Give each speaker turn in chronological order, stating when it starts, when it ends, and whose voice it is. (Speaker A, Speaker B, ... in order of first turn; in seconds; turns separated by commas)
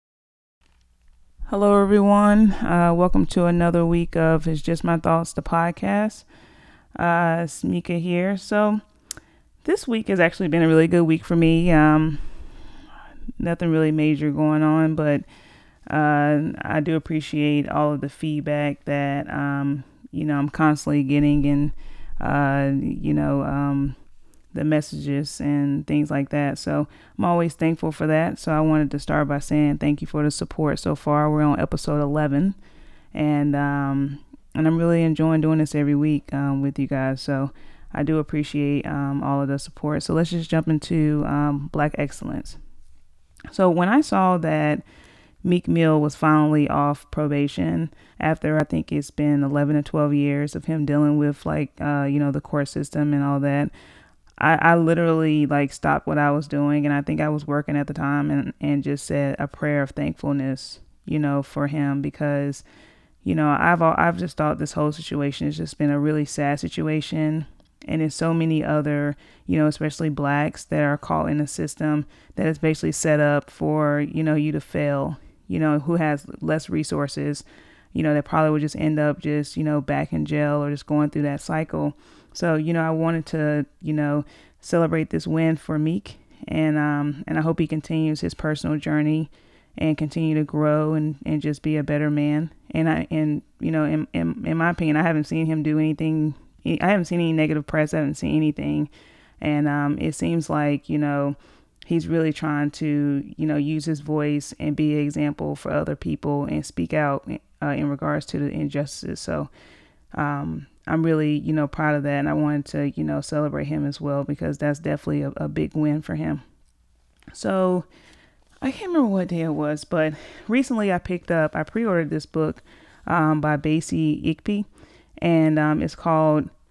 Speaker A: 1.5-6.2, Speaker A: 7.0-8.8, Speaker A: 9.6-12.5, Speaker A: 13.4-15.2, Speaker A: 15.9-24.0, Speaker A: 24.5-32.6, Speaker A: 33.1-42.6, Speaker A: 43.5-44.8, Speaker A: 45.4-53.7, Speaker A: 54.4-62.6, Speaker A: 63.2-98.9, Speaker A: 99.4-109.5, Speaker A: 110.1-116.4, Speaker A: 117.3-117.9, Speaker A: 118.6-124.7, Speaker A: 125.2-126.5